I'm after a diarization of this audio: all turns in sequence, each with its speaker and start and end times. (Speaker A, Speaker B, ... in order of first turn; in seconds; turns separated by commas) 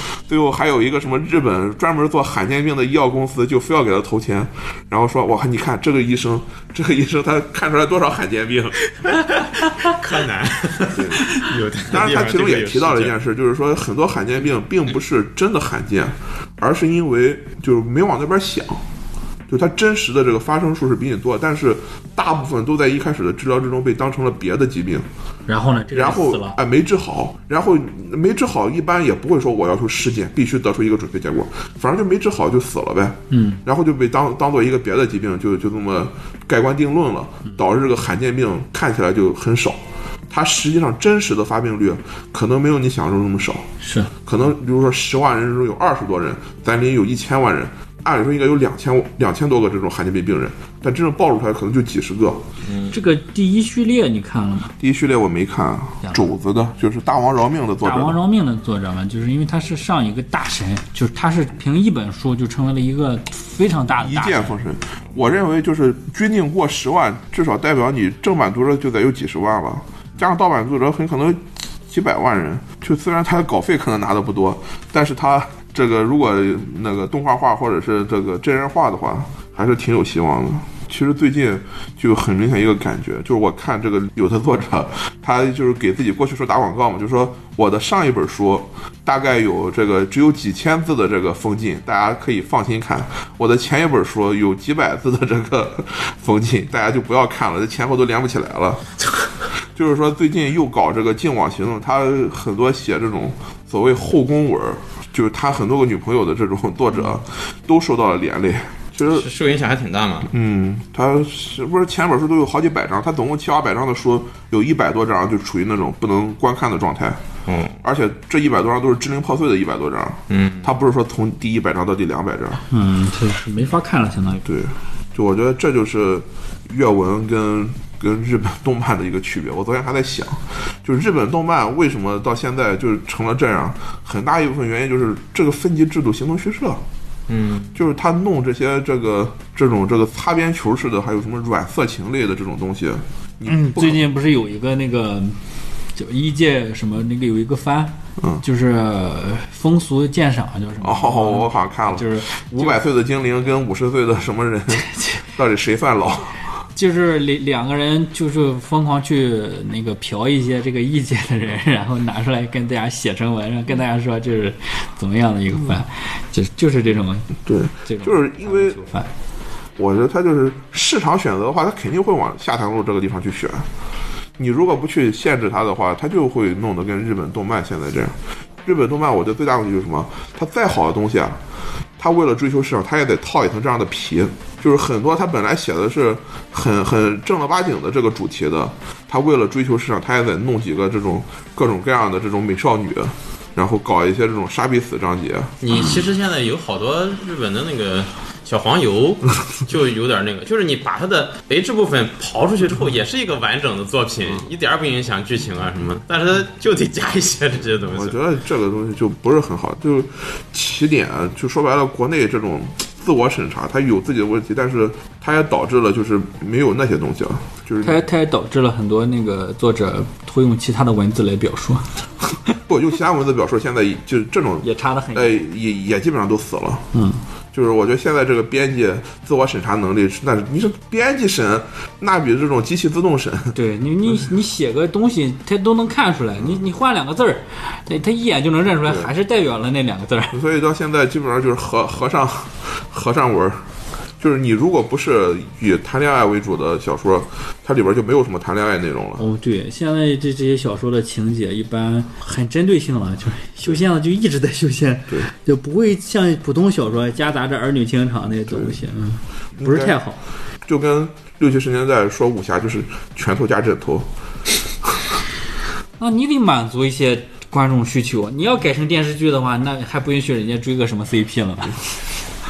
Speaker A: 0.3-8.8, Speaker B: 9.0-13.1, Speaker A: 10.9-11.3, Speaker A: 11.9-18.8, Speaker A: 19.5-25.1, Speaker C: 25.5-26.6, Speaker A: 25.9-39.8, Speaker C: 33.3-33.6, Speaker A: 40.3-43.6, Speaker C: 43.8-44.1, Speaker A: 44.3-52.4, Speaker B: 52.6-52.9, Speaker C: 52.9-54.7, Speaker A: 54.8-58.2, Speaker C: 56.0-56.3, Speaker C: 57.8-64.5, Speaker A: 64.0-98.9, Speaker A: 99.8-109.3, Speaker B: 109.1-110.3, Speaker A: 110.3-117.2, Speaker B: 117.5-117.8, Speaker A: 117.8-122.6, Speaker B: 120.3-120.7, Speaker C: 122.7-124.5, Speaker A: 124.4-136.8, Speaker B: 137.3-137.8, Speaker A: 137.8-144.0, Speaker C: 143.5-145.4, Speaker C: 146.0-152.8, Speaker A: 148.2-148.4, Speaker A: 150.8-156.4, Speaker C: 156.8-169.1, Speaker A: 167.4-168.8, Speaker A: 169.8-173.7, Speaker A: 174.4-181.4, Speaker A: 182.0-195.6, Speaker B: 195.6-208.2, Speaker A: 207.9-218.0, Speaker C: 217.8-222.0, Speaker A: 222.7-226.9, Speaker C: 224.6-225.4, Speaker C: 226.9-227.2, Speaker A: 227.5-233.6, Speaker C: 233.5-240.4, Speaker A: 240.3-243.7, Speaker A: 244.2-249.2, Speaker C: 249.2-260.2, Speaker A: 259.6-260.0, Speaker A: 260.6-264.1, Speaker C: 266.0-271.8